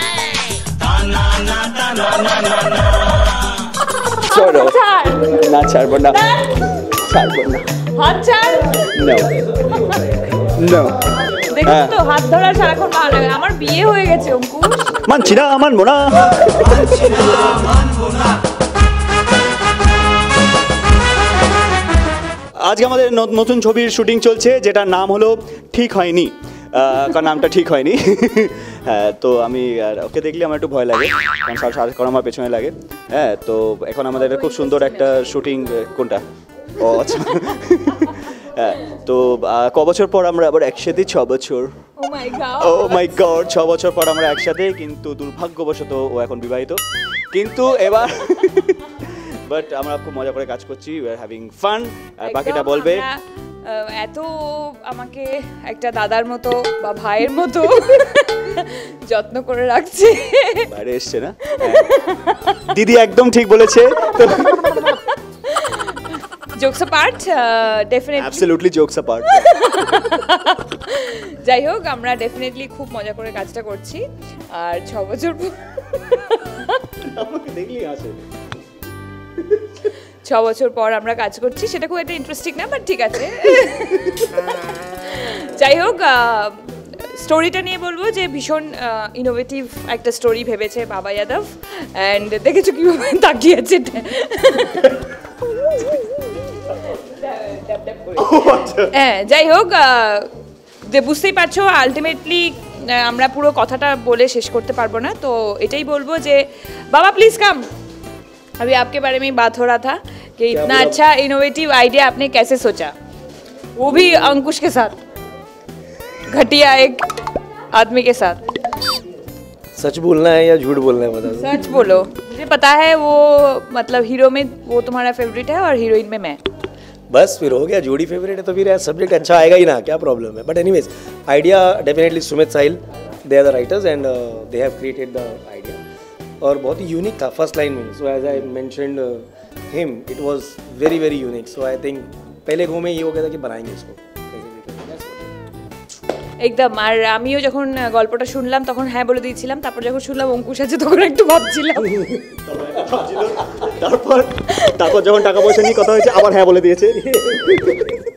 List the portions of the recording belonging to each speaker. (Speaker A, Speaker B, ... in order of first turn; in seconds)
Speaker A: 1.4-2.4, 4.2-6.2, 7.0-7.8, 8.9-9.4, 10.6-11.0, 11.6-12.0, 15.0-17.9, 22.6-36.2, 36.8-41.7, 42.6-46.8, 47.3-53.1, 60.7-62.0, 62.5-65.0, 68.2-69.5, 77.0-78.2, 98.2-98.9, 152.2-158.1
Speaker B: 4.2-6.8, 7.9-8.9, 11.4-14.9, 34.1-35.2, 42.0-43.2, 52.2-60.7, 61.4-62.5, 64.7-68.5, 69.3-76.8, 80.2-95.0, 96.7-100.3, 100.9-107.7, 108.6-112.9, 113.8-115.0, 116.3-117.1, 117.7-118.4, 121.2-126.4, 146.4-152.0, 154.5-154.8
Speaker C: 110.5-111.0, 119.8-121.8, 127.1-135.8, 136.4-145.3